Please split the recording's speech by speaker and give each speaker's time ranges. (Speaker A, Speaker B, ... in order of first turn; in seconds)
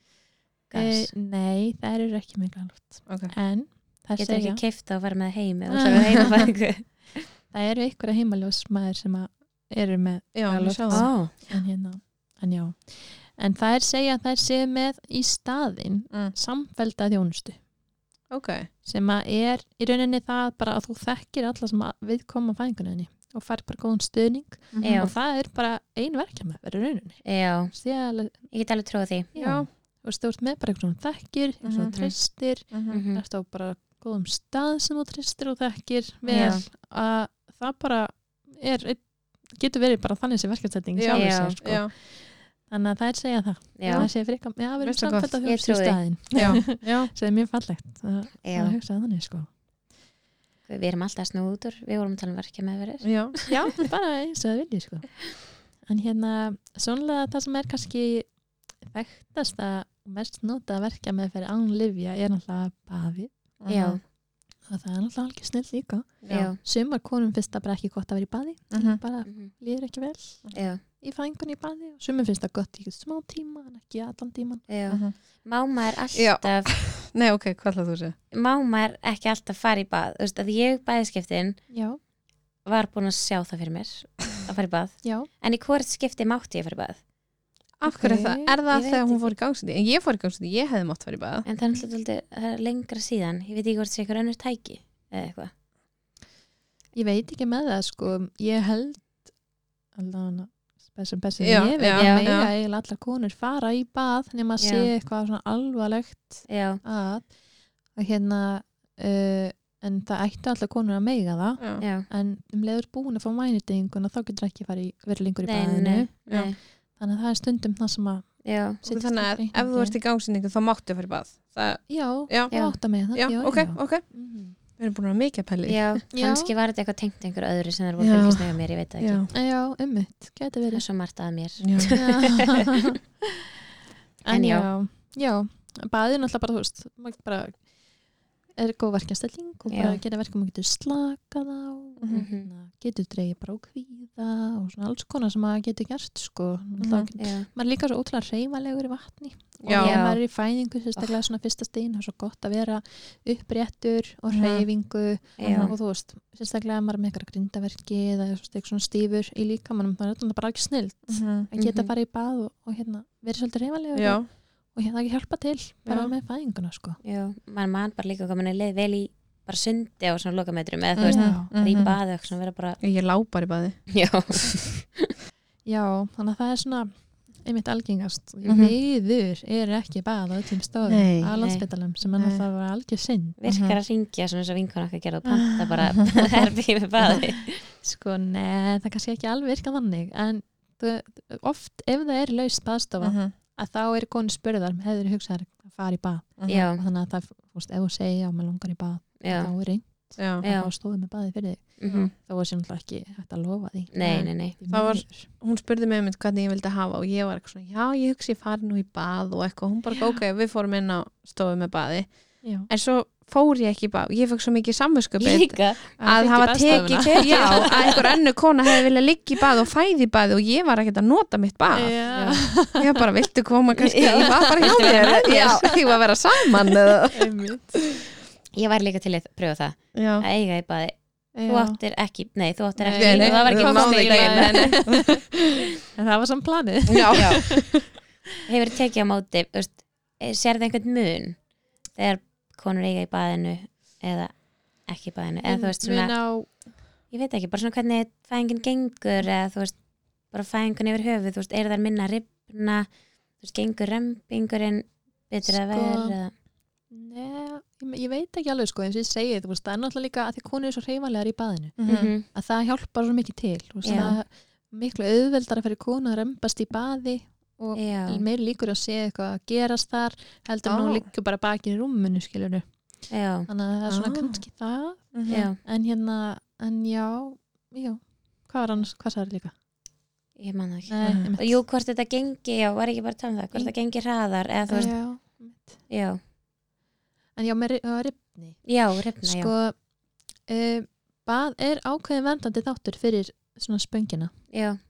Speaker A: 0.7-1.1, 4.2-7.3, 10.9-11.3, 24.8-25.1, 27.2-27.7, 28.5-29.3, 31.9-32.1, 32.9-33.2, 36.3-36.6, 41.1-41.6, 43.8-44.1, 45.4-46.5, 48.4-48.8, 50.7-53.6, 63.7-64.0, 66.3-66.6, 69.2-69.5, 70.5-70.8, 74.7-76.7, 78.3-81.6, 82.7-87.0, 88.7-89.3, 91.5-95.5, 102.0-102.3, 104.6-104.9, 106.5-106.8, 111.8-112.1, 115.4-116.6, 118.4-118.8, 122.5-122.8, 125.7-129.3, 130.7-132.9, 134.3-134.7, 139.7-140.0, 142.1-142.5, 147.2-147.5, 149.8-150.2, 155.4-155.7, 161.6-161.9, 167.0-172.8, 173.9-175.1, 178.4-178.7, 181.4-181.7, 183.4-187.7, 196.5-196.8, 199.2-199.5, 200.4-200.7, 201.8-202.1, 203.9-204.6, 215.2-215.9, 217.0-218.1, 222.1-222.5, 223.8-225.9, 228.6-234.8, 237.1-237.7, 238.5-241.4, 241.9-246.2, 247.1-249.8, 250.3-256.3, 261.9-262.3, 263.8-264.2, 267.8-268.2, 273.1-273.5, 275.3-275.6, 280.4-285.0, 285.9-286.2, 288.6-289.5, 294.5-294.8
Speaker B: 0.7-4.6, 5.7-6.5, 7.5-17.6, 18.8-28.5, 29.3-49.5, 53.5-58.3, 58.8-63.3, 64.7-74.7, 81.7-82.0, 85.0-85.3, 87.8-88.6, 96.9-99.3, 100.0-107.3, 107.9-120.0, 121.9-124.6, 126.1-126.5, 129.3-130.8, 131.9-133.0, 134.2-137.7, 138.6-167.0, 171.1-171.5, 175.7-183.4, 187.1-205.3, 212.4-212.7, 216.0-218.1, 221.7-222.9, 224.2-225.7, 227.1-227.9, 231.3-231.8, 232.8-237.7, 245.4-246.5, 255.4-256.2, 256.9-272.7, 273.5-279.5, 280.9-281.6, 284.7-285.8, 287.4-289.8, 290.5-294.3
Speaker C: 3.1-3.3, 5.9-6.3, 10.3-11.1, 18.3-18.7, 24.7-25.1, 29.4-29.7, 31.6-32.0, 32.7-33.0, 36.3-36.6, 41.0-41.9, 44.8-45.3, 46.4-47.1, 53.0-53.4, 63.6-64.0, 66.2-66.5, 68.7-69.0, 74.9-75.2, 76.1-78.2, 87.8-91.5, 101.4-102.5, 118.8-122.5, 123.1-126.0, 128.0-129.3, 131.6-132.1, 146.8-147.1, 149.6-150.0, 154.3-154.7, 155.4-155.7, 161.1-161.5, 163.9-164.3, 170.9-172.0, 172.8-173.9, 180.9-181.3, 182.2-182.4, 183.5-183.8, 193.0-193.3, 200.2-200.4, 201.9-202.1, 204.7-222.0, 222.8-227.3, 229.9-230.3, 233.0-235.2, 236.9-237.8, 261.8-262.1, 263.9-264.2, 270.6-271.1, 273.9-274.4, 275.1-275.5, 281.0-281.3